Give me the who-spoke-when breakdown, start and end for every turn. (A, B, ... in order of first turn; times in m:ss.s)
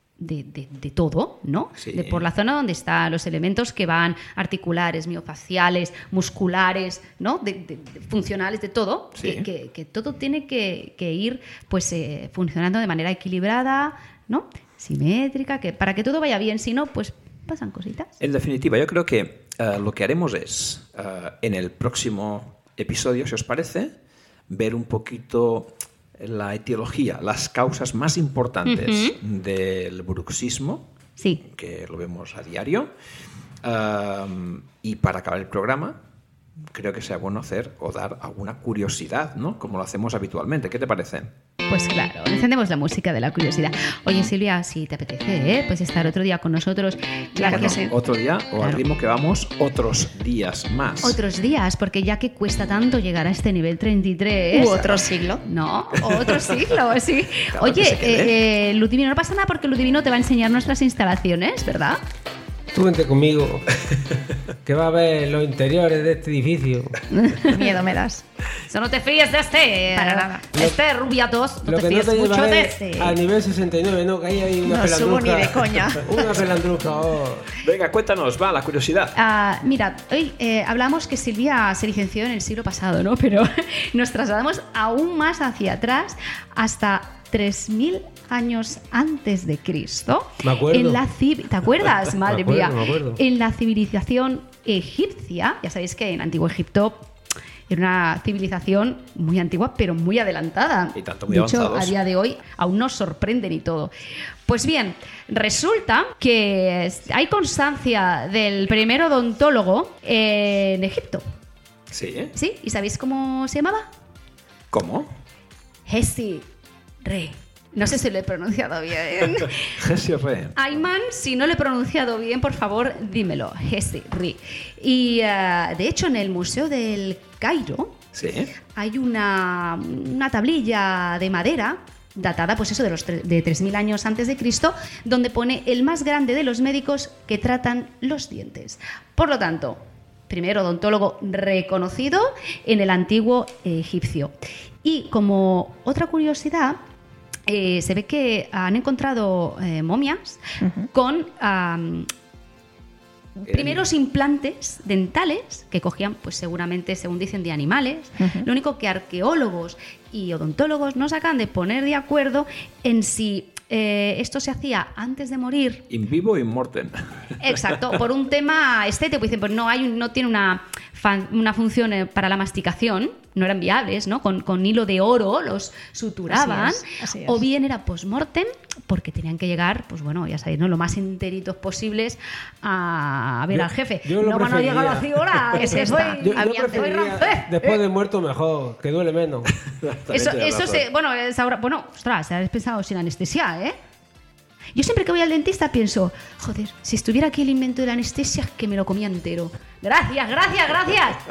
0:00.2-0:18.1 A
0:01.8-0:02.3 B
0:09.1-0:09.5 B
0:18.2-0:23.9 B
0:24.5-0:30.9 B
0:28.6-0:29.2 A
0:31.2-0:31.4 A
0:31.4-0:32.9 B
0:33.6-0:36.0 B
0:36.7-0:41.3 B
0:41.7-0:47.9 A
0:47.3-0:47.9 C
0:47.5-0:51.2 B
0:51.0-1:02.0 A
0:54.5-0:55.4 C
0:56.1-0:56.6 B
0:57.5-0:58.4 B
1:02.7-1:03.7 D
1:04.6-1:07.0 D
1:07.1-1:07.7 A
1:07.4-1:08.2 C
1:08.7-1:13.0 A
1:09.9-1:10.5 C
1:11.6-1:17.5 D
1:12.8-1:13.2 C
1:14.6-1:16.5 C
1:17.6-1:19.1 B
1:19.1-1:37.1 A
1:30.4-1:31.0 D
1:32.3-1:33.2 D
1:37.7-1:43.9 A
1:40.9-1:41.9 B
1:44.4-1:51.2 A
1:51.9-1:52.3 B
1:52.3-1:53.9 A
1:54.7-1:55.1 B
1:55.8-1:56.5 A
1:57.0-1:59.7 A
1:59.6-2:00.6 B
2:00.6-2:08.0 A
2:08.1-2:08.5 B
2:08.7-2:24.3 A
2:24.8-2:26.8 A
2:27.5-2:32.1 A
2:30.6-2:30.9 C
2:33.4-2:45.8 A
2:33.5-2:33.8 B
2:38.2-2:38.5 C
2:45.9-2:48.0 B
2:47.4-3:07.8 A
2:56.3-2:57.4 C
3:03.5-3:05.0 D
3:05.6-3:07.2 C
3:05.6-3:09.5 D
3:09.5-3:10.8 B
3:10.1-3:13.8 A
3:14.7-3:21.2 A